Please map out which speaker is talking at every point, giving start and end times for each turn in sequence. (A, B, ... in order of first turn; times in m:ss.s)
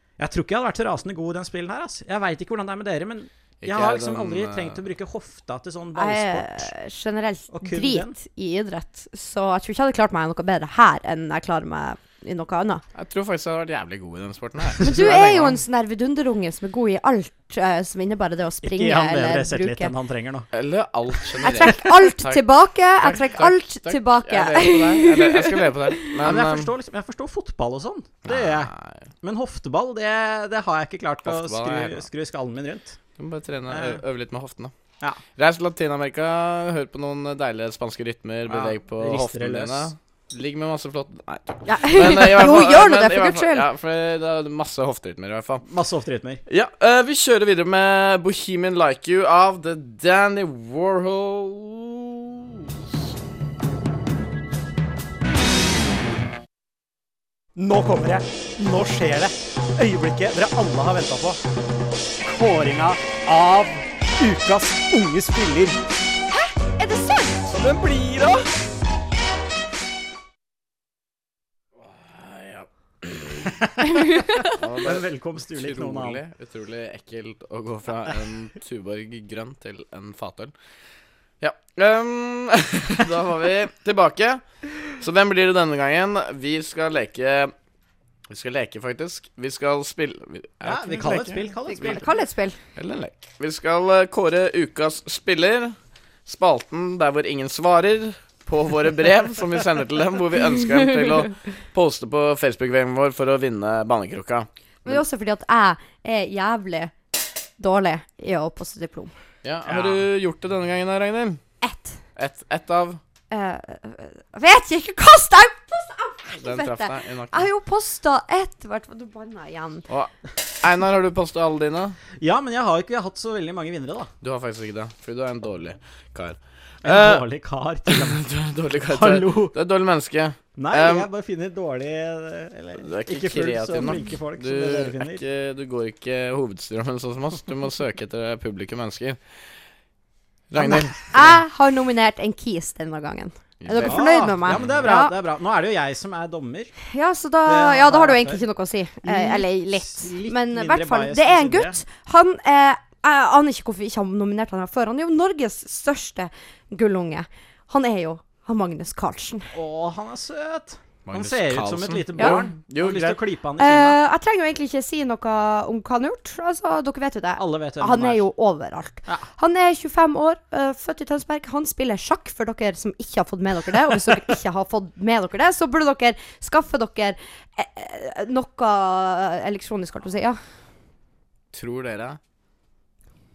0:00.2-0:06.7 A
0:03.6-0:04.8 B
0:06.0-0:12.8 C
0:07.5-0:08.2 A
0:13.0-0:15.6 B
0:14.8-0:19.9 C
0:18.6-0:20.5 A
0:20.5-0:22.5 B
0:21.4-0:26.1 C
0:23.0-0:26.7 B
0:26.2-0:28.7 A
0:28.2-0:29.1 B
0:29.2-0:33.0 A
0:31.2-0:32.1 B
0:33.2-0:34.7 B
0:33.7-0:34.0 A
0:35.4-0:45.6 B
0:38.5-0:39.9 A
0:41.7-0:43.7 C
0:45.6-0:46.4 A
0:46.5-0:52.8 B
0:57.6-1:01.4 A
1:02.2-1:05.8 A
1:06.3-1:07.5 C
1:07.5-1:08.4 B
1:11.8-1:13.6 B
1:13.6-1:16.2 A
1:14.0-1:14.3 C
1:14.5-1:20.5 B
1:21.4-1:27.5 B
1:28.3-1:32.0 B
1:30.6-1:32.1 A
1:31.7-1:32.6 C
1:32.8-1:45.0 B
1:44.8-1:46.9 C
1:47.6-1:49.1 C
1:49.4-1:51.4 B
1:49.7-1:50.1 A
1:51.6-1:52.0 C
1:52.2-1:53.0 B
1:53.3-1:59.8 C
1:56.4-1:57.5 B
1:59.9-2:02.0 B
2:02.2-2:04.1 A
2:04.2-2:07.3 B
2:06.8-2:08.2 A
2:07.9-2:11.1 B
2:08.9-2:09.5 A
2:10.6-2:15.2 A
2:12.8-2:19.2 B
2:20.5-2:21.0 B
2:20.6-2:25.2 C
2:23.6-2:24.0 B
2:23.8-2:26.8 A
2:26.9-2:39.5 C
2:27.4-2:28.4 A
2:29.0-2:31.8 A
2:39.5-2:44.0 A
2:41.1-2:43.2 B
2:43.6-3:00.4 C
2:47.4-2:48.2 A
3:01.5-3:02.2 B